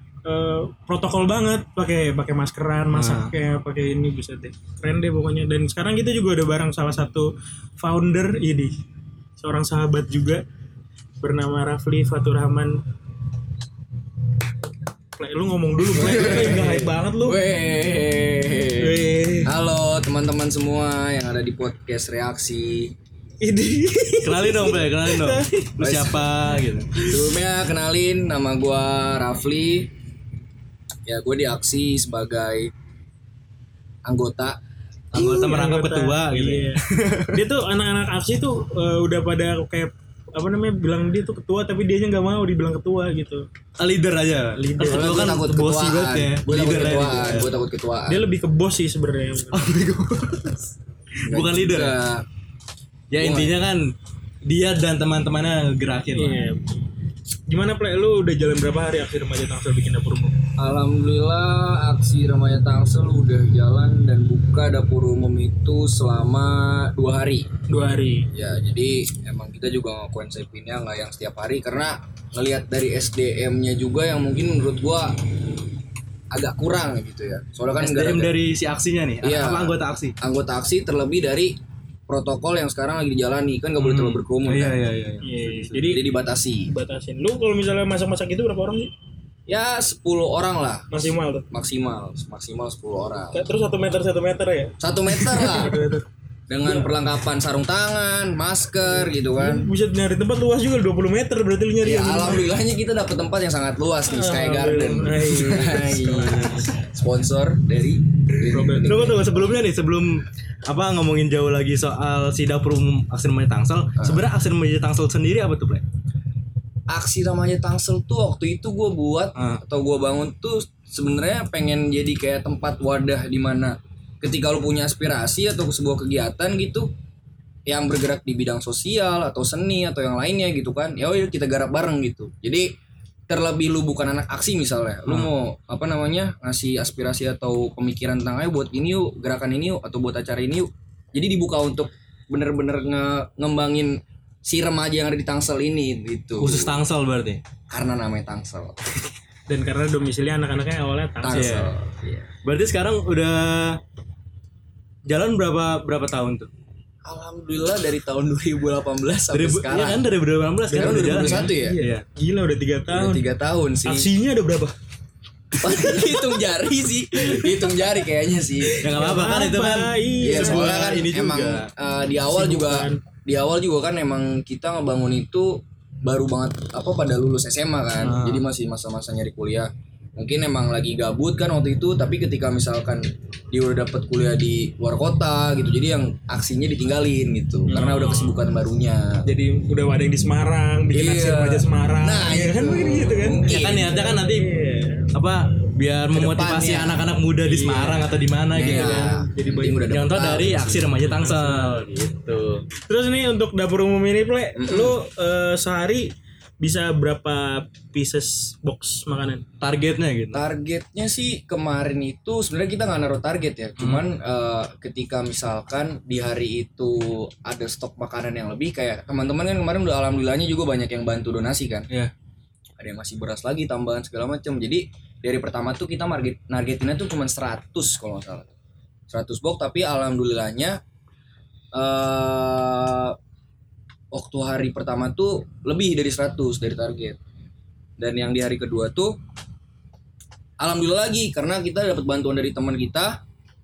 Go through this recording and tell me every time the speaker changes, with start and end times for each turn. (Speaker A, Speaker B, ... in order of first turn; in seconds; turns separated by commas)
Speaker A: 0.2-7.3, Speaker B: 2.9-3.3, Speaker A: 7.8-8.7, Speaker A: 9.4-10.4, Speaker A: 11.2-12.8, Speaker A: 15.2-17.4, Speaker C: 15.9-22.9, Speaker A: 18.8-19.5, Speaker A: 23.4-25.7, Speaker B: 24.2-26.9, Speaker C: 25.8-26.2, Speaker A: 26.9-27.2, Speaker C: 27.0-29.9, Speaker C: 31.1-32.7, Speaker C: 34.0-34.6, Speaker B: 35.1-37.4, Speaker A: 35.1-43.4, Speaker B: 43.8-47.5, Speaker A: 44.6-45.4, Speaker C: 44.8-48.2, Speaker A: 46.5-47.4, Speaker A: 48.1-49.8, Speaker B: 49.5-52.0, Speaker C: 51.2-52.2, Speaker B: 53.1-53.8, Speaker C: 53.2-53.6, Speaker B: 54.5-56.5, Speaker A: 56.1-56.7, Speaker A: 57.5-60.3, Speaker C: 60.6-67.5, Speaker A: 67.7-68.3, Speaker C: 68.3-75.3, Speaker C: 76.3-78.4, Speaker B: 77.8-80.2, Speaker C: 79.2-81.6, Speaker C: 82.1-84.8, Speaker B: 83.8-86.0, Speaker A: 85.2-86.0, Speaker C: 85.9-86.7, Speaker A: 86.7-88.9, Speaker C: 89.5-93.4, Speaker A: 90.9-91.5, Speaker A: 93.3-96.0, Speaker C: 94.8-95.8, Speaker C: 96.5-99.7, Speaker A: 96.7-96.9, Speaker A: 98.9-102.5, Speaker C: 101.8-109.7, Speaker A: 104.1-106.7, Speaker A: 108.5-109.2, Speaker B: 108.8-115.8, Speaker C: 114.0-114.3, Speaker C: 116.9-126.9, Speaker B: 119.3-119.6, Speaker C: 127.7-132.7, Speaker C: 133.3-146.8, Speaker B: 146.4-147.4, Speaker C: 147.7-148.8, Speaker A: 149.5-151.6, Speaker C: 151.2-152.3, Speaker B: 151.3-151.7, Speaker B: 152.4-153.8, Speaker B: 155.1-156.5, Speaker C: 157.1-160.1, Speaker B: 159.3-162.0, Speaker A: 160.7-163.2, Speaker C: 160.8-161.8, Speaker C: 162.9-164.1, Speaker A: 163.8-164.7, Speaker C: 165.6-168.8, Speaker A: 167.2-167.9, Speaker A: 168.6-170.8, Speaker B: 168.8-171.7, Speaker C: 170.2-189.2, Speaker A: 172.3-173.0, Speaker B: 178.0-178.5, Speaker A: 187.7-188.4, Speaker A: 189.2-195.1, Speaker C: 190.9-193.7, Speaker B: 193.5-194.5, Speaker B: 195.1-199.2, Speaker C: 196.1-197.0, Speaker A: 197.4-199.8, Speaker C: 198.5-201.0, Speaker B: 199.9-202.7, Speaker A: 201.0-201.9, Speaker A: 202.8-209.4, Speaker C: 204.6-205.0, Speaker B: 209.6-210.4, Speaker C: 210.3-221.9, Speaker B: 213.8-214.0, Speaker C: 222.8-228.5, Speaker C: 229.1-230.8, Speaker C: 231.7-233.2, Speaker C: 234.1-237.2, Speaker C: 238.0-239.2, Speaker C: 240.6-243.2